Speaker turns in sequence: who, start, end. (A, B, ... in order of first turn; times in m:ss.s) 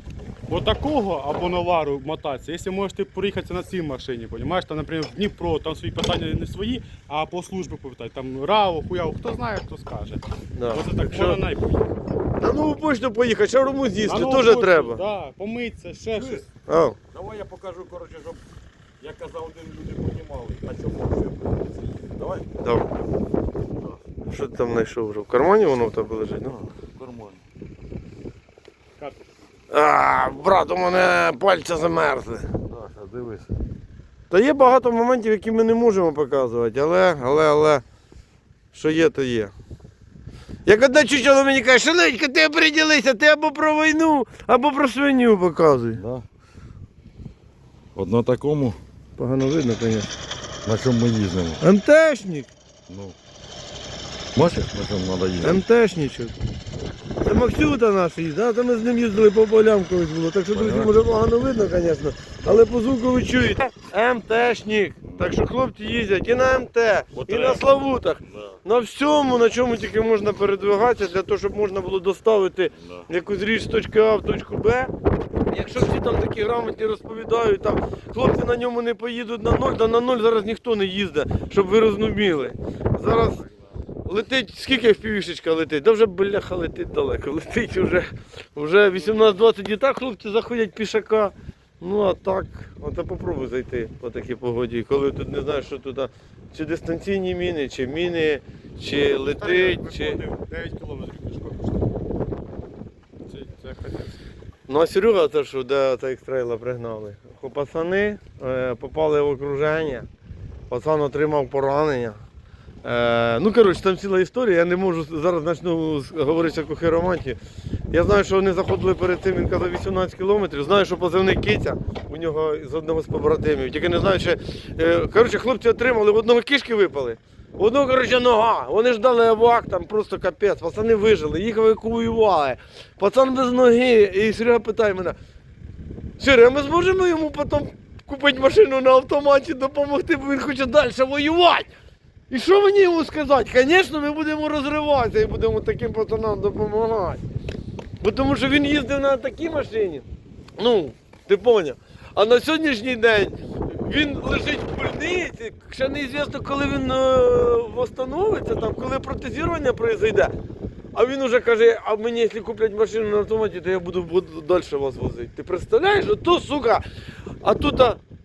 0:00.5-0:12.0 A
0:10.6-0:11.4 B
0:12.4-0:15.0 B
0:14.0-0:16.4 A
0:16.1-0:16.4 C
0:16.6-0:17.0 B
0:17.1-0:18.4 C
0:19.0-0:22.5 C
0:22.6-0:22.9 B
0:24.3-0:26.7 B
0:26.7-0:27.4 C
0:29.7-0:32.5 B
0:32.7-0:33.5 C
0:34.3-0:37.8 B
0:38.7-0:39.5 B
0:40.6-0:46.0 B
0:45.9-0:46.2 C
0:47.9-0:48.8 C
0:49.2-0:50.1 B
0:50.6-0:51.6 C
0:51.6-0:52.5 B
0:52.9-0:53.2 C
0:54.3-0:55.6 C
0:55.4-0:56.3 B
0:57.2-1:14.9 B
1:00.5-1:00.9 C
1:07.2-1:07.6 C
1:15.5-1:23.4 B
1:24.0-1:40.2 B
1:39.4-1:41.8 A
1:43.3-1:44.2 A
1:44.7-1:50.1 B
1:50.7-1:52.2 B
1:52.8-1:57.4 B
1:57.9-2:15.2 B
2:16.2-2:21.7 B
2:22.3-2:27.2 B
2:28.0-2:30.0 B
2:30.6-2:40.3 B
2:40.9-2:46.8 B
2:47.4-2:48.0 B